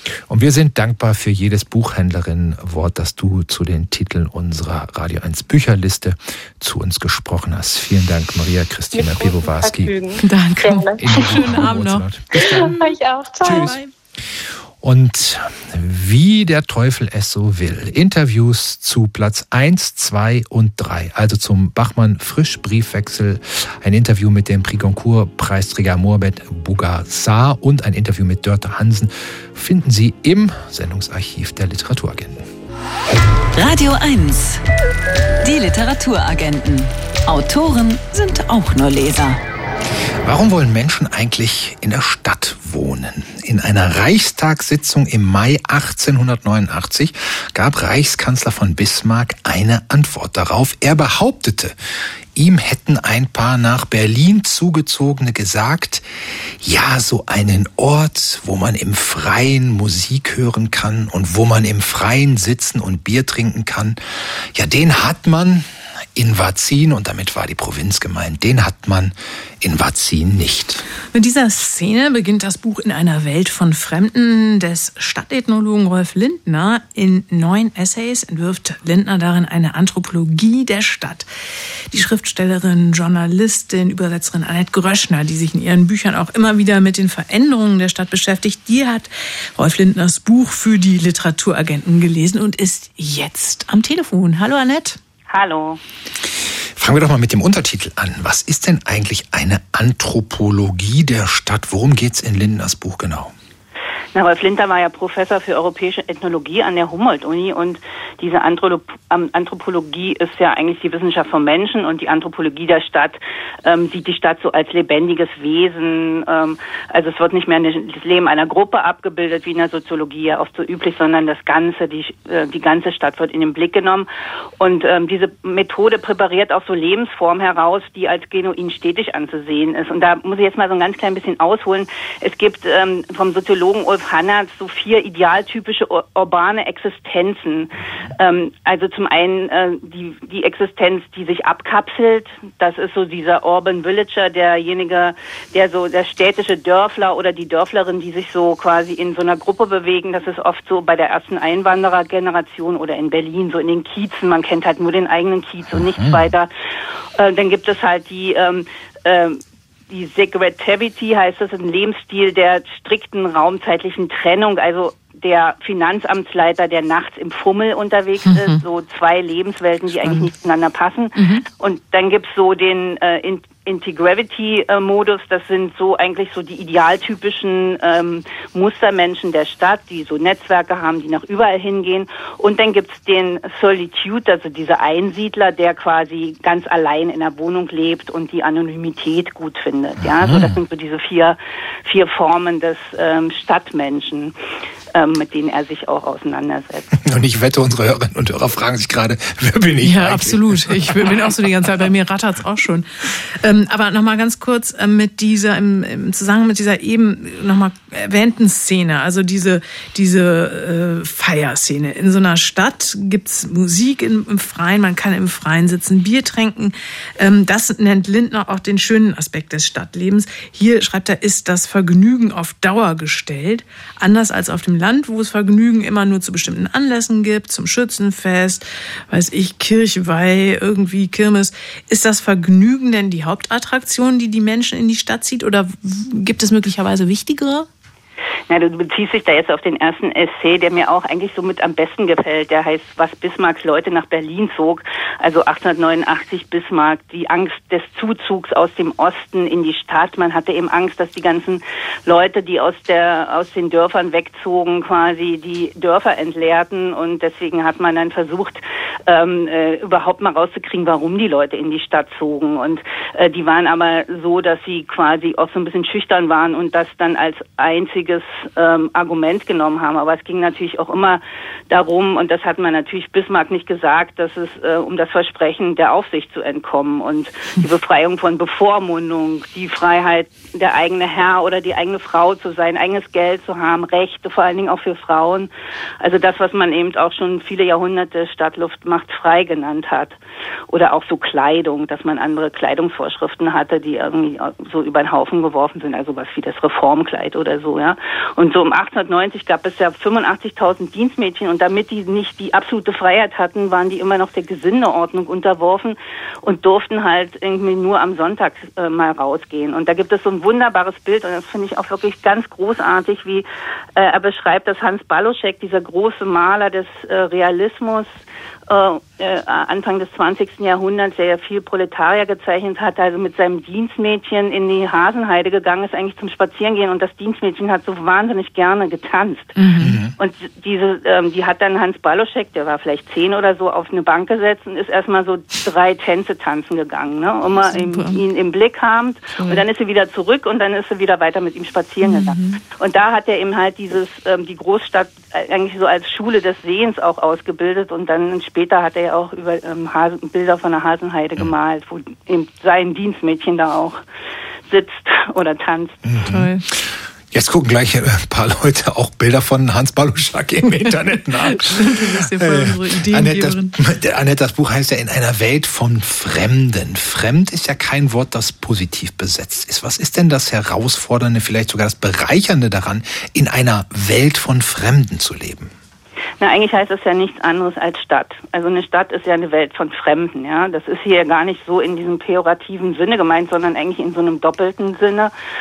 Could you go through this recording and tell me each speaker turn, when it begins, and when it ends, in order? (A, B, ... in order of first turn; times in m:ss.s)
0:00.3-0:09.9 A
0:08.9-0:11.5 B
0:10.2-0:12.9 C
0:11.0-0:12.8 A
0:12.3-0:13.8 B
0:13.4-0:13.8 A
0:13.4-0:13.9 C
0:14.8-0:32.4 A
0:33.5-0:34.6 D
0:35.4-0:39.4 D
0:40.2-0:51.8 A
0:52.4-0:56.0 A
0:56.6-1:04.0 A
1:04.5-1:10.8 A
1:11.1-1:21.3 C
1:21.9-1:35.0 C
1:35.3-1:35.8 E
1:36.8-1:43.3 A
1:44.1-2:04.1 E
2:04.6-2:36.5 E
2:35.7-2:36.2 A
2:37.2-3:14.3 E
2:48.3-2:48.6 C
2:51.2-2:51.4 C
3:10.0-3:10.6 A
3:14.9-3:16.9 E
3:16.9-3:21.3 A
3:19.8-3:57.7 C
3:58.5-4:45.5 E
4:46.0-4:50.2 E
4:50.7-5:18.2 E
5:18.7-5:29.6 E
5:29.6-5:30.0 C
5:29.8-5:30.2 A
5:30.2-5:54.0 E
5:37.7-5:38.2 C
5:39.4-5:39.6 C
5:42.0-5:42.6 C
5:54.7-5:56.0 E
5:56.0-6:15.7 A
5:56.2-5:56.6 C
6:00.8-6:03.7 C
6:16.4-6:25.3 E